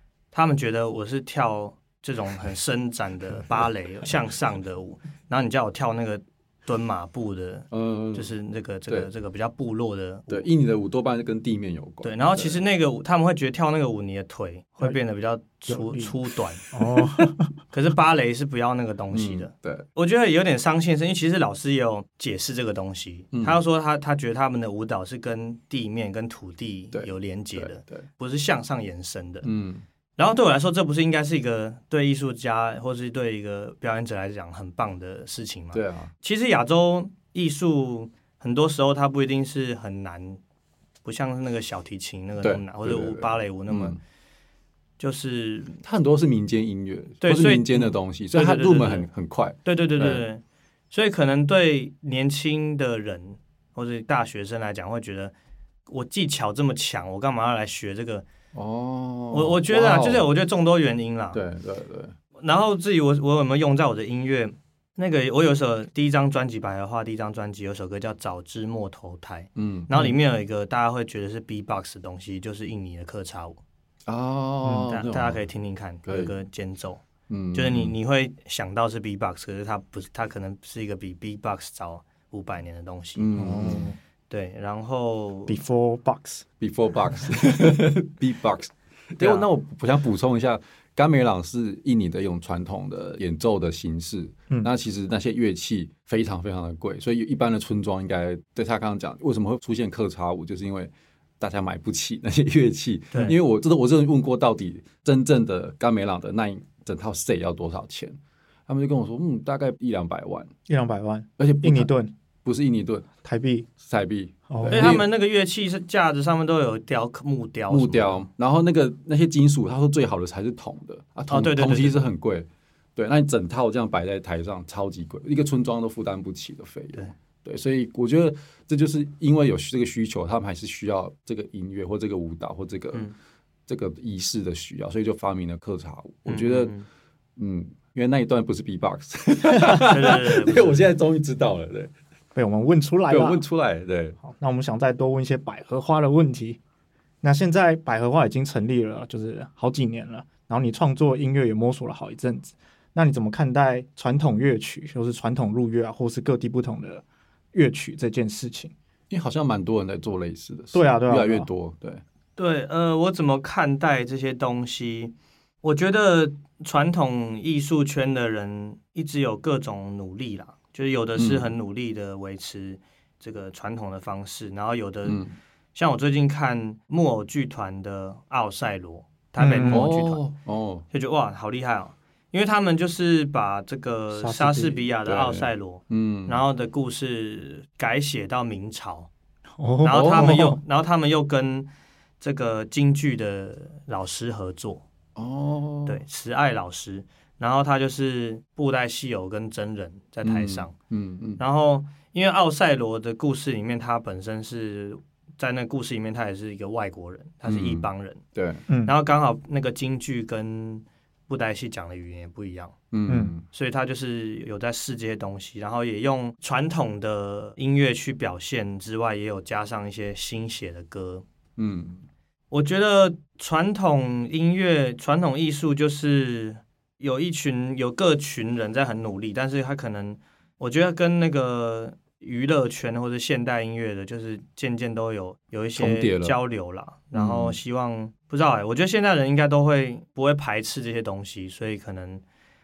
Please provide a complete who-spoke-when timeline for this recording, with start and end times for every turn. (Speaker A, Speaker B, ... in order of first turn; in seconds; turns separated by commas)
Speaker A: 0.3-10.5, Speaker B: 7.7-8.3, Speaker B: 10.3-12.6, Speaker A: 12.0-16.7, Speaker C: 15.7-16.1, Speaker C: 16.7-17.5, Speaker A: 17.7-29.5, Speaker B: 19.1-19.9, Speaker B: 23.3-23.6, Speaker B: 26.9-28.1, Speaker B: 29.4-29.8, Speaker A: 30.2-40.4, Speaker B: 35.7-36.1, Speaker A: 41.0-44.0, Speaker B: 42.4-44.0, Speaker A: 45.0-45.8, Speaker B: 45.8-50.2, Speaker A: 47.2-49.1, Speaker A: 49.6-55.3, Speaker A: 55.9-58.3, Speaker B: 58.5-60.3, Speaker A: 59.3-61.4, Speaker B: 61.3-62.2, Speaker A: 62.4-73.6, Speaker B: 69.6-69.9, Speaker B: 74.1-75.4, Speaker C: 74.7-74.9, Speaker A: 74.9-83.3, Speaker B: 76.1-76.3, Speaker B: 77.3-77.9, Speaker B: 83.2-83.9, Speaker C: 83.4-84.0, Speaker A: 84.3-85.6, Speaker C: 85.5-86.5, Speaker B: 86.6-108.2, Speaker C: 87.1-87.6, Speaker A: 89.2-89.5, Speaker B: 108.7-110.5, Speaker C: 110.7-112.1, Speaker B: 111.4-111.9, Speaker B: 112.5-113.1, Speaker C: 113.2-113.7, Speaker B: 113.8-115.1, Speaker C: 114.5-115.0, Speaker A: 114.7-118.3, Speaker B: 117.7-133.1, Speaker A: 121.3-122.0, Speaker B: 133.7-136.7, Speaker A: 136.3-136.9, Speaker B: 137.4-141.9, Speaker A: 139.8-140.9, Speaker C: 142.3-143.4, Speaker B: 143.1-144.2, Speaker C: 144.2-146.6, Speaker C: 147.2-158.8, Speaker B: 159.1-162.0, Speaker C: 160.7-161.5, Speaker A: 162.4-175.2, Speaker B: 171.2-171.5, Speaker B: 175.1-175.3, Speaker A: 175.8-180.2, Speaker C: 179.4-179.9, Speaker B: 179.6-180.9, Speaker A: 180.9-189.1, Speaker C: 184.1-184.8, Speaker B: 185.1-186.4, Speaker C: 189.6-190.6, Speaker A: 189.8-191.7, Speaker B: 189.9-190.5, Speaker A: 192.2-194.8, Speaker B: 195.2-196.0, Speaker A: 195.9-200.7, Speaker B: 200.2-201.4, Speaker A: 201.4-208.2, Speaker B: 207.5-208.7, Speaker C: 208.7-208.9, Speaker A: 208.8-212.8, Speaker B: 212.9-213.5, Speaker A: 213.5-221.2, Speaker B: 221.6-222.0, Speaker A: 222.5-242.2, Speaker B: 235.8-236.4, Speaker B: 237.1-237.6